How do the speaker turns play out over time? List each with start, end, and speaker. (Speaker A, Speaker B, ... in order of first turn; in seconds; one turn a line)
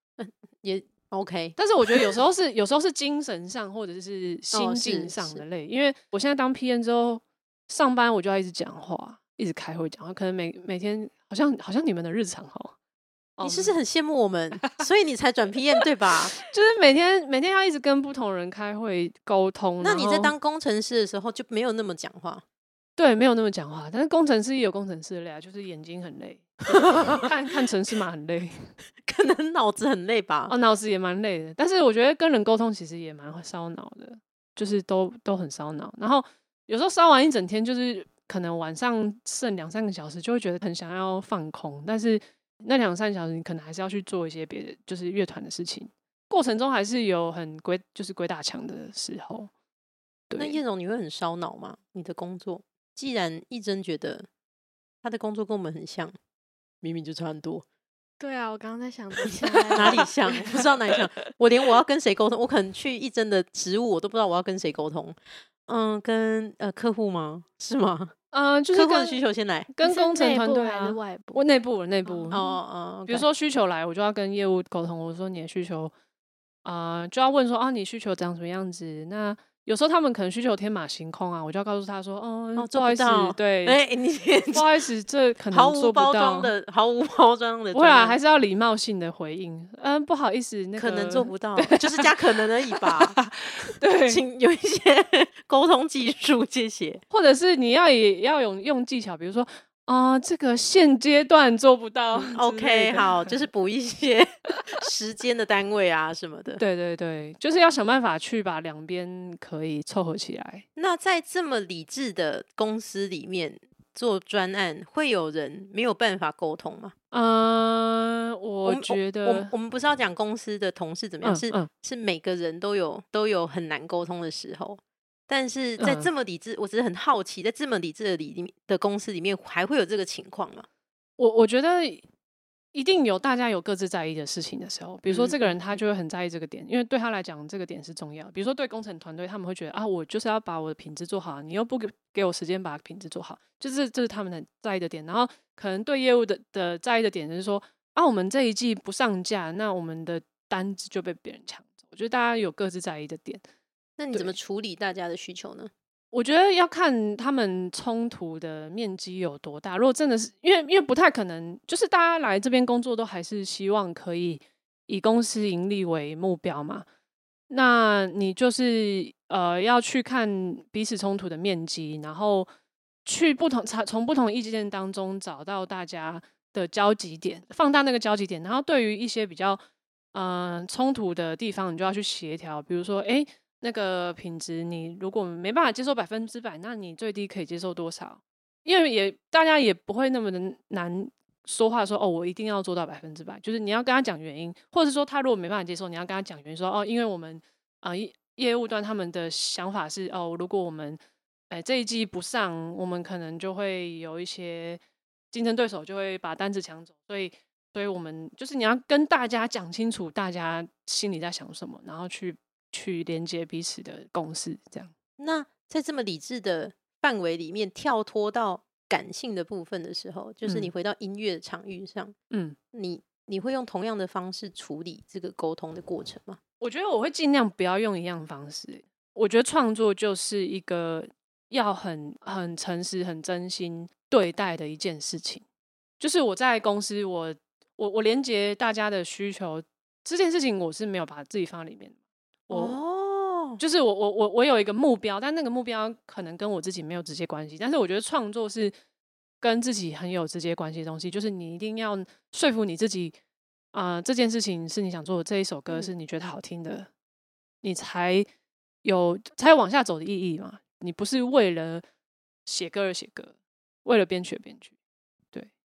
Speaker A: 0.2-2.1
Speaker B: 1.6-12.7
Speaker A: 4.5-5.4
Speaker B: 13.4-13.8
Speaker A: 13.4-16.3
Speaker B: 16.3-20.3
Speaker A: 19.8-22.4
Speaker B: 23.0-28.6
Speaker A: 26.7-27.2
Speaker A: 29.1-30.5
Speaker B: 30.5-49.5
Speaker B: 50.3-50.6
Speaker A: 50.4-54.3
Speaker A: 55.0-56.1
Speaker A: 56.8-57.6
Speaker C: 58.2-60.6
Speaker A: 59.7-68.1
Speaker B: 68.3-69.2
Speaker A: 68.7-69.7
Speaker B: 69.7-72.4
Speaker C: 69.8-71.4
Speaker C: 72.0-72.6
Speaker A: 72.3-73.2
Speaker B: 73.1-75.9
Speaker B: 76.6-83.8
Speaker A: 82.5-84.7
Speaker B: 84.5-86.5
Speaker A: 85.5-88.2
Speaker B: 87.7-92.1
Speaker A: 90.8-93.2
Speaker B: 92.8-94.2
Speaker A: 94.0-97.0
Speaker B: 97.1-103.3
Speaker A: 102.3-106.6
Speaker B: 106.6-110.6
Speaker A: 110.8-116.9
Speaker B: 117.1-119.5
Speaker A: 118.6-130.7
Speaker B: 121.2-121.7
Speaker B: 125.8-126.1
Speaker B: 131.2-132.0
Speaker B: 132.7-153.4
Speaker A: 135.1-135.5
Speaker A: 154.0-155.7
Speaker B: 156.1-166.8
Speaker B: 167.5-172.5
Speaker B: 173.0-179.6
Speaker B: 180.1-204.8
Speaker B: 205.3-214.9
Speaker A: 215.2-222.2
Speaker B: 220.4-220.7
Speaker B: 222.3-222.6
Speaker A: 222.7-226.4
Speaker B: 226.6-235.4
Speaker B: 236.0-242.0
Speaker B: 242.5-242.8
Speaker A: 242.5-243.6
Speaker B: 243.6-248.7
Speaker B: 249.4-253.2
Speaker B: 253.7-256.9
Speaker B: 257.6-258.3
Speaker B: 258.8-261.8
Speaker B: 262.4-263.3
Speaker B: 263.8-264.7